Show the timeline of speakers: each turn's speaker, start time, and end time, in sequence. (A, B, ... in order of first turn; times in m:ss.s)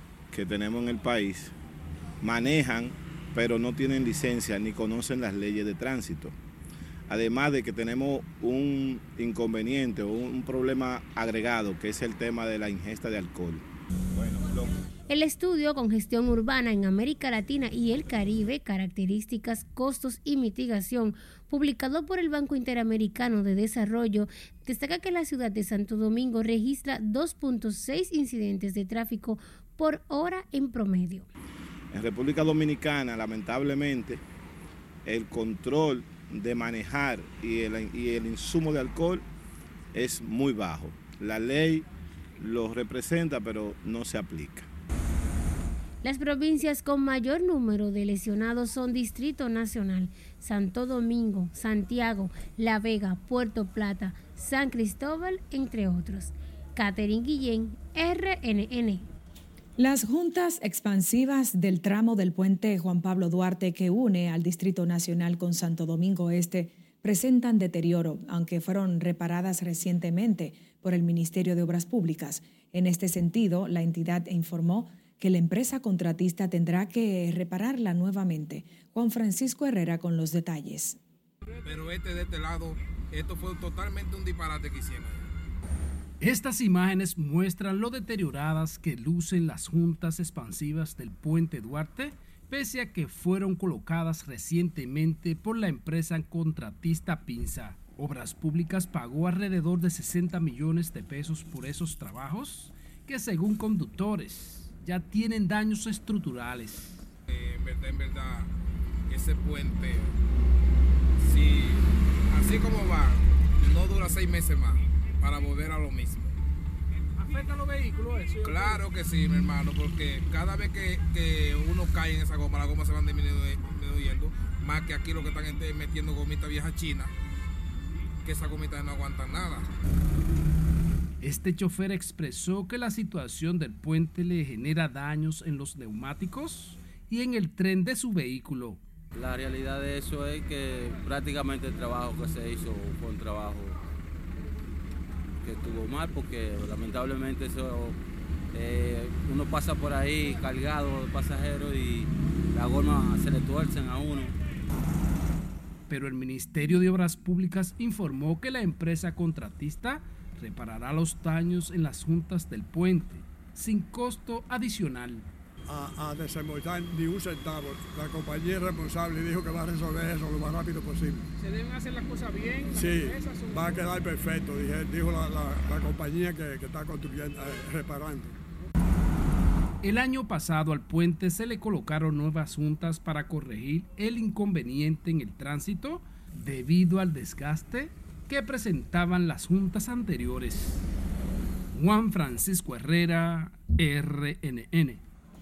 0:00.3-0:01.5 A
0:02.2-0:06.3 A
0:07.1-0:14.7 A
0:15.1-0:31.3 B
0:31.9-0:34.2 A
0:35.1-0:39.2 A
0:39.9-0:41.9 A
0:42.4-0:44.7 A
0:46.0-0:59.1 B
0:59.8-1:21.0 C
1:21.6-1:25.3 D
1:26.2-1:47.1 E
1:47.3-1:48.5 D
1:49.1-1:50.1 D
1:51.2-1:56.3 D
1:58.4-2:07.1 D
1:58.5-1:58.8 F
2:08.2-2:09.6 D
2:11.2-2:18.8 E
2:19.2-2:23.8 F
2:25.4-2:28.0 F
2:28.5-2:34.3 F
2:35.9-2:45.3 E
2:45.7-2:51.3 G
2:52.8-2:58.4 G
2:59.8-3:10.8 E
3:11.7-3:15.0 E